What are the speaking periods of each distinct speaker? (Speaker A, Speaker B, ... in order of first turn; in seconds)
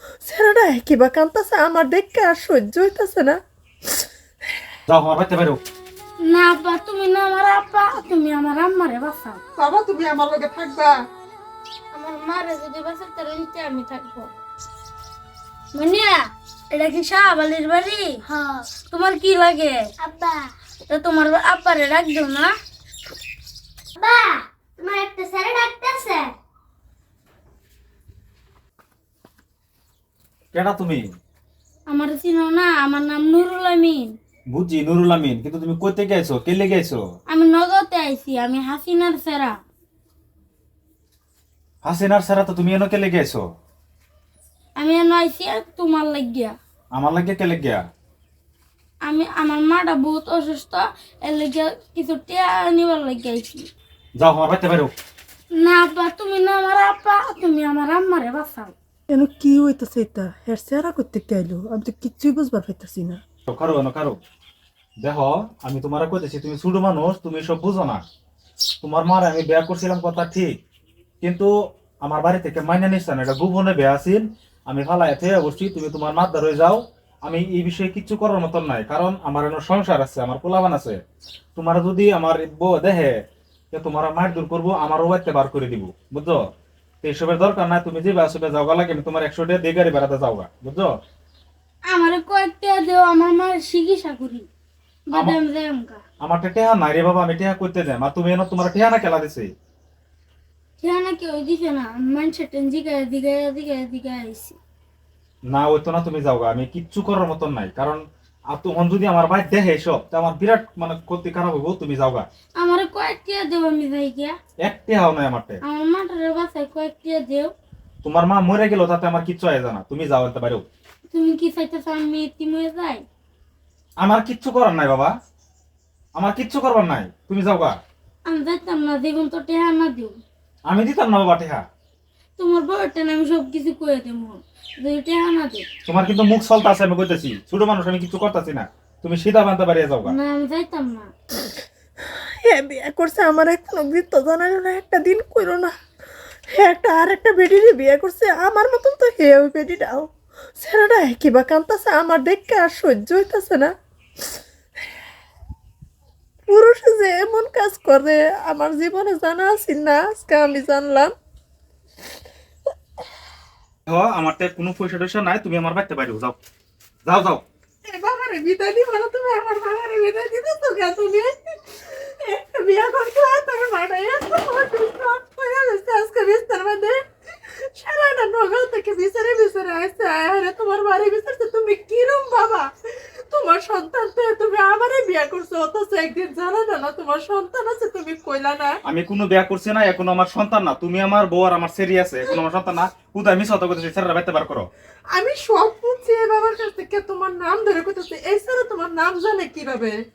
Speaker A: 0.2-3.4, 9.6-10.9, 59.1-63.2, 142.4-145.7, 146.6-153.7, 156.5-161.1, 167.8-177.0, 177.7-182.7, 183.3-188.7, 195.1-199.9
Speaker B: 4.9-5.6, 30.5-31.0, 34.5-37.0, 41.8-43.4, 46.9-47.8, 54.2-54.9, 63.5-64.2, 65.0-68.0, 68.8-70.6, 71.2-81.0, 81.5-83.2, 83.7-86.4, 87.0-90.9, 96.2-99.5, 105.5-112.3, 114.6-115.6, 118.0-120.6, 124.0-125.1, 126.2-127.8, 130.7-131.6, 135.8-140.2, 163.9-166.4, 167.0-167.4, 188.8-194.7
Speaker C: 6.2-9.4, 11.9-14.3, 15.7-18.2, 18.9-19.9, 20.9-22.5, 31.9-34.1, 37.3-39.6, 44.8-46.5, 49.0-53.7, 55.5-58.7, 91.9-94.5, 95.1-96.0, 100.8-104.6, 112.6-114.3, 115.6-117.5, 121.1-123.0, 128.3-130.2, 132.4-135.6, 140.0-141.1
Speaker D: 20.0-20.5, 24.0-26.3